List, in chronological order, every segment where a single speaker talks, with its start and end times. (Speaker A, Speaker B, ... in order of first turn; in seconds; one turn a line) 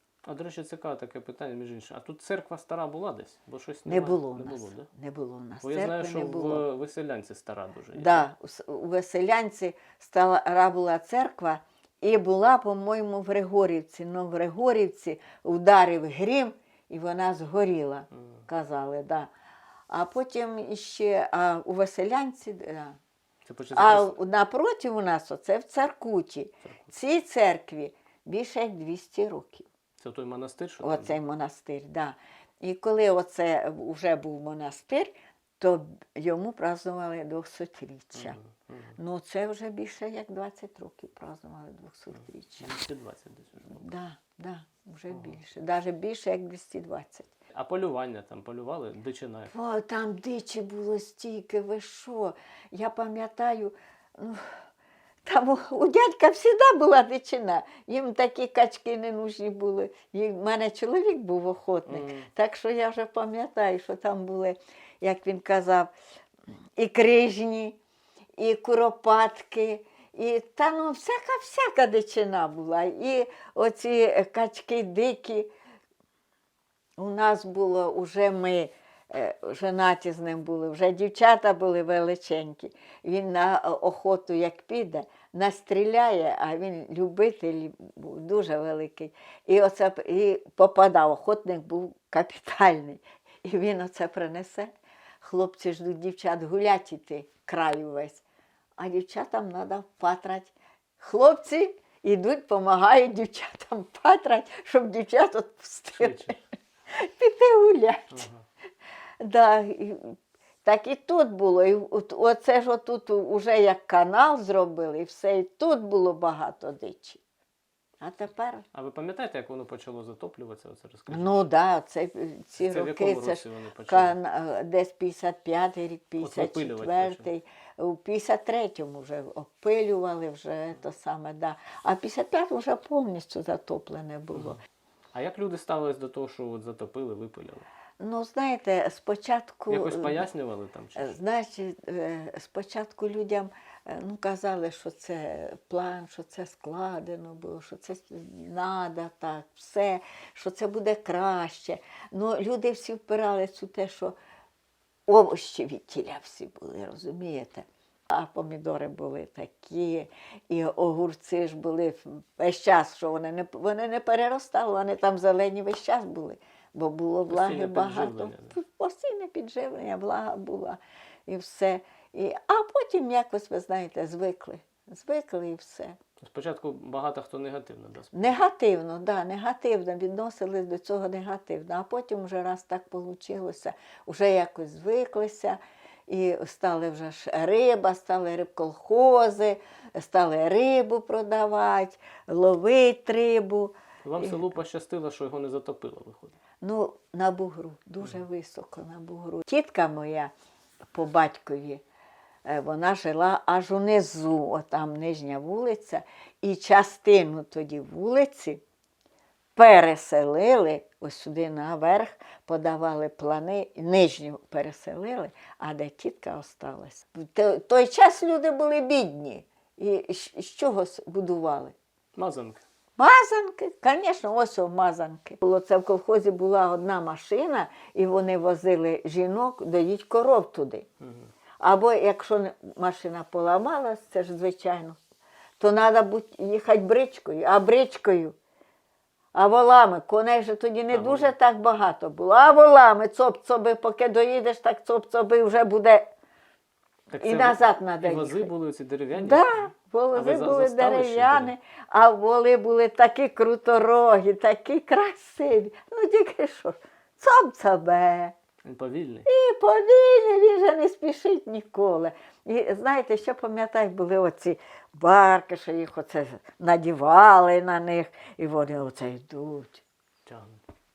Speaker A: 0.2-4.9
Speaker B: 3.9-6.6
Speaker A: 5.6-8.2
Speaker B: 7.9-19.3
Speaker B: 19.9-23.0
Speaker A: 23.4-24.1
Speaker B: 23.7-29.7
Speaker A: 30.0-31.1
Speaker B: 30.8-38.4
Speaker A: 38.1-39.0
Speaker B: 39.0-42.7
Speaker A: 42.6-43.8
Speaker B: 43.7-47.3
Speaker A: 47.5-49.5
Speaker B: 49.5-54.5
Speaker B: 55.2-65.9
Speaker A: 61.9-62.3
Speaker B: 66.8-67.8
Speaker B: 68.4-75.5
Speaker B: 77.0-98.2
Speaker B: 98.8-106.4
Speaker A: 106.0-106.4
Speaker B: 106.9-108.3
Speaker A: 108.1-108.4
Speaker B: 109.2-117.2
Speaker B: 118.0-118.6
Speaker A: 118.7-121.5
Speaker B: 121.1-134.6
Speaker A: 122.6-124.2
Speaker A: 126.2-127.3
Speaker A: 135.1-137.7
Speaker B: 138.0-140.2
Speaker A: 139.7-141.2
Speaker B: 140.9-154.2
Speaker B: 155.1-176.0
Speaker A: 167.3-168.6
Speaker A: 176.2-178.3
Speaker B: 178.1-194.4
Speaker A: 194.0-196.3
Speaker B: 196.6-200.3
Speaker B: 200.9-201.8
Speaker B: 202.4-208.6
Speaker B: 209.6-221.7
Speaker A: 222.1-222.6
Speaker B: 223.0-230.9
Speaker A: 231.0-231.3
Speaker B: 231.6-235.0
Speaker B: 235.6-238.3
Speaker B: 239.3-246.1
Speaker A: 240.9-241.3
Speaker A: 247.1-251.5
Speaker B: 247.2-248.5
Speaker B: 249.1-258.3
Speaker A: 258.6-259.2
Speaker B: 259.2-269.8
Speaker A: 270.2-270.6